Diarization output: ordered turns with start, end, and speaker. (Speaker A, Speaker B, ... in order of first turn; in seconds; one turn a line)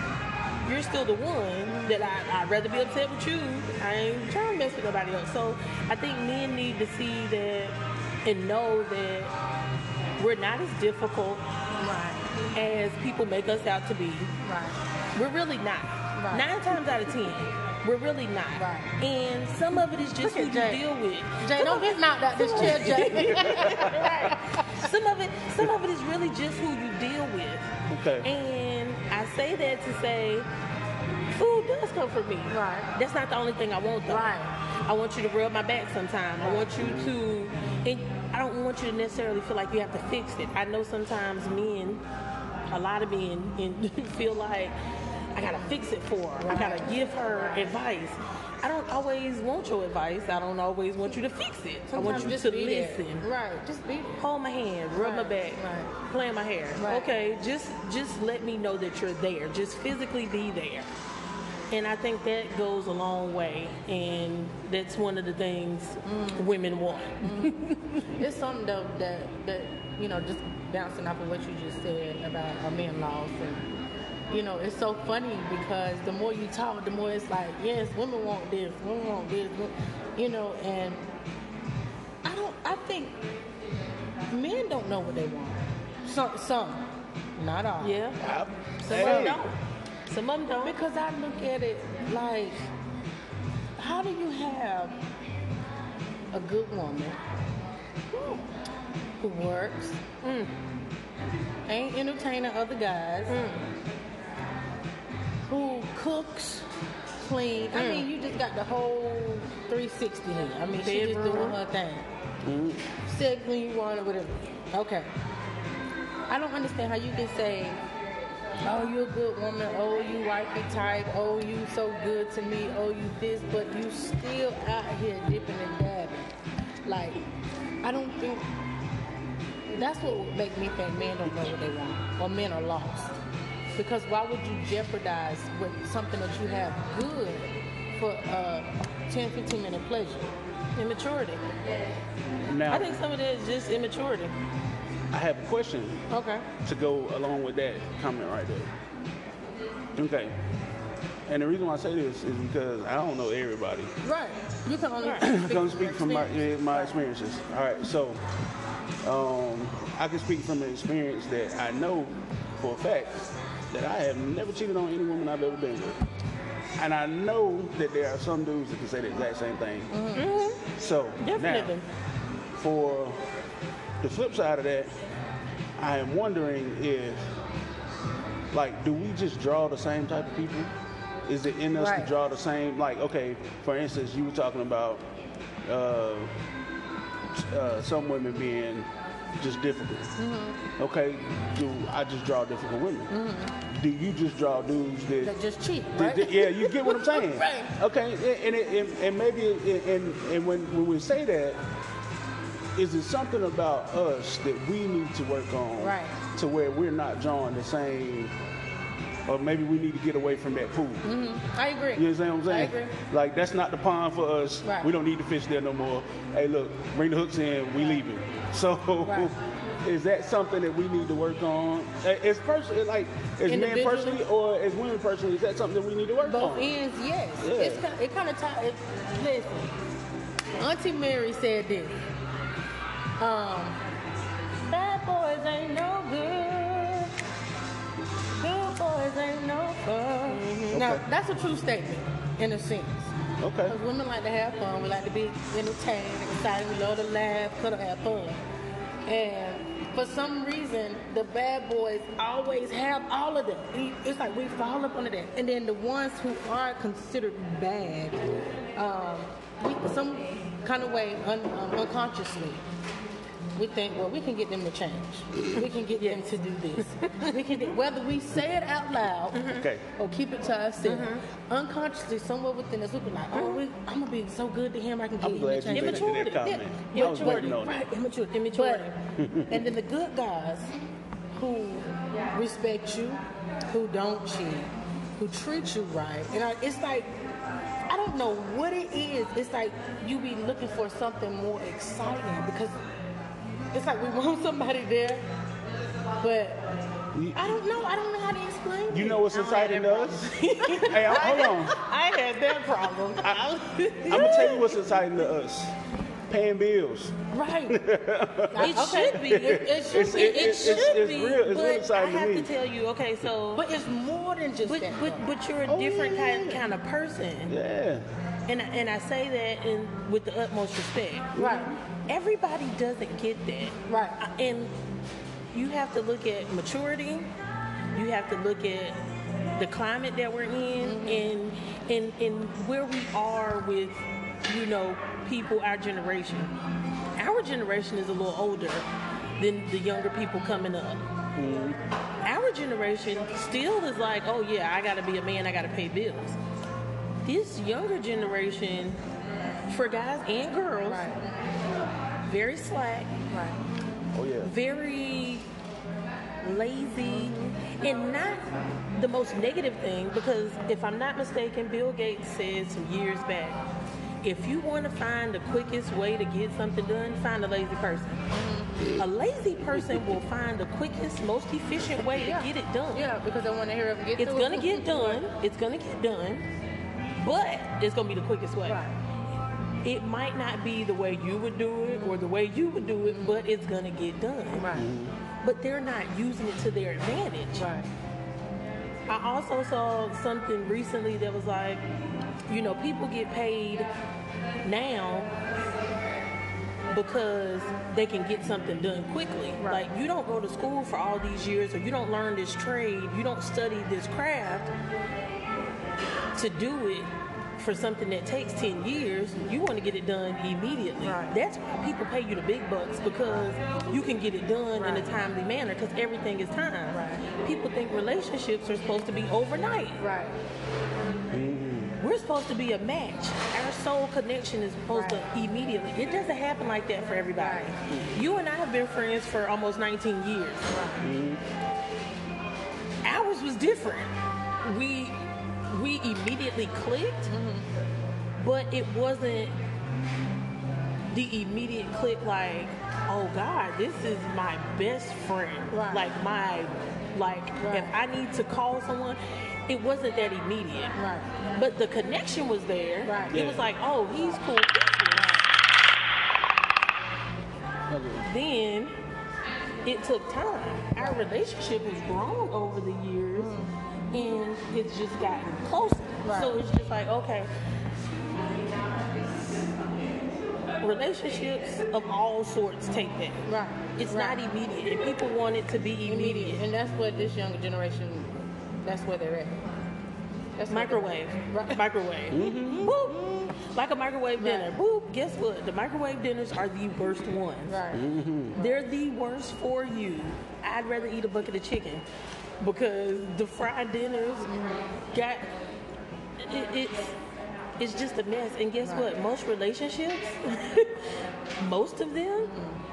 Speaker A: 0.6-9.3
Speaker B: 1.7-2.1
Speaker A: 10.2-11.4
Speaker B: 11.8-12.3
Speaker A: 12.5-14.3
Speaker B: 14.4-14.8
Speaker A: 15.1-27.7
Speaker B: 16.1-16.4
Speaker B: 18.6-19.0
Speaker B: 20.2-20.8
Speaker B: 21.3-24.8
Speaker C: 22.9-24.1
Speaker C: 27.9-28.3
Speaker A: 28.2-30.5
Speaker A: 31.4-34.3
Speaker B: 32.5-32.9
Speaker B: 34.1-34.5
Speaker A: 34.8-42.0
Speaker B: 36.4-36.7
Speaker C: 36.8-37.2
Speaker A: 42.7-44.7
Speaker A: 45.3-53.2
Speaker B: 46.4-47.7
Speaker B: 51.9-54.2
Speaker A: 54.2-60.9
Speaker B: 55.0-55.9
Speaker B: 56.8-57.1
Speaker A: 61.7-68.0
Speaker B: 66.0-66.5
Speaker B: 67.2-67.6
Speaker B: 68.1-73.7
Speaker B: 74.3-81.1
Speaker B: 82.2-83.2
Speaker B: 84.3-86.9
Speaker B: 87.4-88.0
Speaker A: 87.8-88.2
Speaker C: 88.2-89.4
Speaker A: 88.8-90.8
Speaker B: 88.9-89.4
Speaker B: 90.6-92.7
Speaker B: 93.8-95.0
Speaker B: 96.3-97.2
Speaker B: 99.2-100.0
Speaker A: 100.2-100.5
Speaker B: 101.7-103.4
Speaker A: 103.3-103.6
Speaker B: 105.5-106.7
Speaker B: 107.2-112.1
Speaker A: 107.7-108.1
Speaker A: 110.8-111.6
Speaker C: 112.4-112.8
Speaker B: 113.0-115.1
Speaker B: 116.3-117.8
Speaker B: 118.6-126.3
Speaker B: 126.9-127.2
Speaker B: 127.8-128.5
Speaker B: 129.7-133.1
Speaker B: 133.8-140.3
Speaker A: 140.8-141.4
Speaker C: 142.3-143.0
Speaker A: 142.7-144.3
Speaker C: 145.1-146.0
Speaker B: 146.1-146.5
Speaker C: 146.6-148.7
Speaker C: 149.9-150.4
Speaker C: 151.3-153.9
Speaker B: 154.0-157.0
Speaker A: 155.0-155.3
Speaker C: 155.2-158.2
Speaker C: 159.0-166.0
Speaker C: 166.8-170.0
Speaker B: 169.9-170.4
Speaker A: 170.1-170.6
Speaker C: 170.7-171.7
Speaker A: 171.2-171.9
Speaker C: 172.6-173.2
Speaker C: 174.0-174.9
Speaker C: 175.8-177.3
Speaker C: 178.5-180.7
Speaker C: 181.2-185.1
Speaker B: 181.8-182.1
Speaker C: 185.7-186.3
Speaker C: 187.3-188.9
Speaker C: 189.4-190.1
Speaker B: 190.2-190.6
Speaker C: 190.8-193.1
Speaker B: 193.1-193.5
Speaker C: 193.7-195.3
Speaker B: 195.2-197.7
Speaker C: 195.9-201.6
Speaker C: 202.8-208.3
Speaker B: 205.8-206.2
Speaker C: 209.3-211.1
Speaker B: 211.0-212.9
Speaker C: 211.9-226.7
Speaker B: 214.6-214.9
Speaker B: 217.8-218.0
Speaker B: 219.0-219.3
Speaker B: 223.5-224.2
Speaker B: 226.2-229.7
Speaker C: 227.4-227.8
Speaker B: 230.6-232.0
Speaker B: 233.2-233.8
Speaker B: 234.7-237.1
Speaker B: 238.4-243.1
Speaker A: 240.3-240.8
Speaker C: 240.7-241.0
Speaker C: 243.4-243.8
Speaker B: 243.7-248.4
Speaker B: 249.1-258.2
Speaker B: 258.8-262.6
Speaker B: 263.6-280.7
Speaker A: 265.5-267.7
Speaker A: 269.3-269.6
Speaker C: 269.5-269.9
Speaker A: 270.8-271.2
Speaker A: 273.3-273.6
Speaker C: 275.2-277.8
Speaker A: 275.7-278.9
Speaker C: 279.2-279.7
Speaker B: 281.4-287.1
Speaker B: 287.9-292.8
Speaker B: 293.7-295.2
Speaker B: 296.2-296.6
Speaker C: 297.1-297.5
Speaker B: 297.4-299.3
Speaker C: 298.9-301.7
Speaker A: 299.3-304.7
Speaker B: 300.4-303.2
Speaker B: 304.0-304.6
Speaker C: 304.1-305.7
Speaker C: 306.3-307.2
Speaker B: 307.3-307.8
Speaker C: 307.7-312.5
Speaker B: 308.5-310.9
Speaker A: 308.6-313.6
Speaker B: 313.5-315.4
Speaker A: 314.6-317.5
Speaker C: 315.6-316.7
Speaker C: 317.5-318.0
Speaker A: 318.5-321.3
Speaker C: 321.4-321.7
Speaker B: 321.4-321.7
Speaker A: 322.1-324.7
Speaker B: 323.9-324.2
Speaker A: 325.5-327.3
Speaker A: 327.9-329.0
Speaker A: 329.6-336.5
Speaker B: 330.8-331.3
Speaker A: 337.1-338.9
Speaker A: 339.4-341.1
Speaker C: 341.4-341.8
Speaker A: 342.2-346.4
Speaker A: 347.2-349.0
Speaker A: 349.7-351.0
Speaker B: 350.8-351.2
Speaker A: 352.2-353.1
Speaker B: 353.3-353.6
Speaker C: 354.1-354.5
Speaker A: 354.4-355.5
Speaker A: 356.4-363.6
Speaker B: 357.0-357.6
Speaker A: 364.2-368.2
Speaker B: 368.3-369.0
Speaker A: 369.0-373.0
Speaker B: 372.2-375.2
Speaker A: 374.2-376.5
Speaker A: 377.2-378.8
Speaker B: 378.6-378.9
Speaker A: 379.8-384.7
Speaker B: 381.9-382.2
Speaker B: 383.0-383.4
Speaker B: 384.5-384.9
Speaker C: 384.7-385.1
Speaker A: 385.4-387.7
Speaker B: 387.5-387.9
Speaker A: 389.1-391.8
Speaker A: 392.5-393.9
Speaker A: 394.6-395.3
Speaker A: 396.9-404.7
Speaker B: 399.6-399.9
Speaker A: 406.4-420.0
Speaker B: 411.0-411.3
Speaker B: 414.8-415.1
Speaker B: 416.9-417.2
Speaker B: 420.0-420.4
Speaker C: 421.3-421.9
Speaker A: 422.0-430.8
Speaker B: 424.9-425.2
Speaker B: 427.4-427.8
Speaker B: 430.7-431.0
Speaker C: 431.0-431.4
Speaker A: 433.0-437.3
Speaker B: 437.3-437.7
Speaker A: 438.4-439.5
Speaker A: 441.1-450.9
Speaker B: 445.7-446.1
Speaker B: 447.6-448.0
Speaker B: 451.0-451.3
Speaker A: 451.5-455.4
Speaker B: 453.0-453.4
Speaker C: 453.3-453.6
Speaker B: 455.1-455.4
Speaker C: 457.9-458.2
Speaker A: 458.2-458.9
Speaker A: 459.9-463.5
Speaker B: 461.0-461.3
Speaker B: 463.4-463.7
Speaker A: 464.1-467.5
Speaker B: 466.2-466.6
Speaker A: 470.8-473.4
Speaker B: 473.5-474.4
Speaker A: 474.0-476.6
Speaker B: 476.1-479.6
Speaker B: 480.6-481.8
Speaker A: 480.7-487.8
Speaker C: 482.3-482.9
Speaker B: 482.6-483.5
Speaker B: 484.4-484.7
Speaker B: 487.7-488.8
Speaker C: 487.9-488.6
Speaker A: 488.5-492.0
Speaker A: 492.6-494.5
Speaker B: 494.5-494.9
Speaker A: 495.1-495.5
Speaker A: 496.4-497.2
Speaker A: 497.8-502.5
Speaker B: 498.8-499.1
Speaker B: 502.4-502.8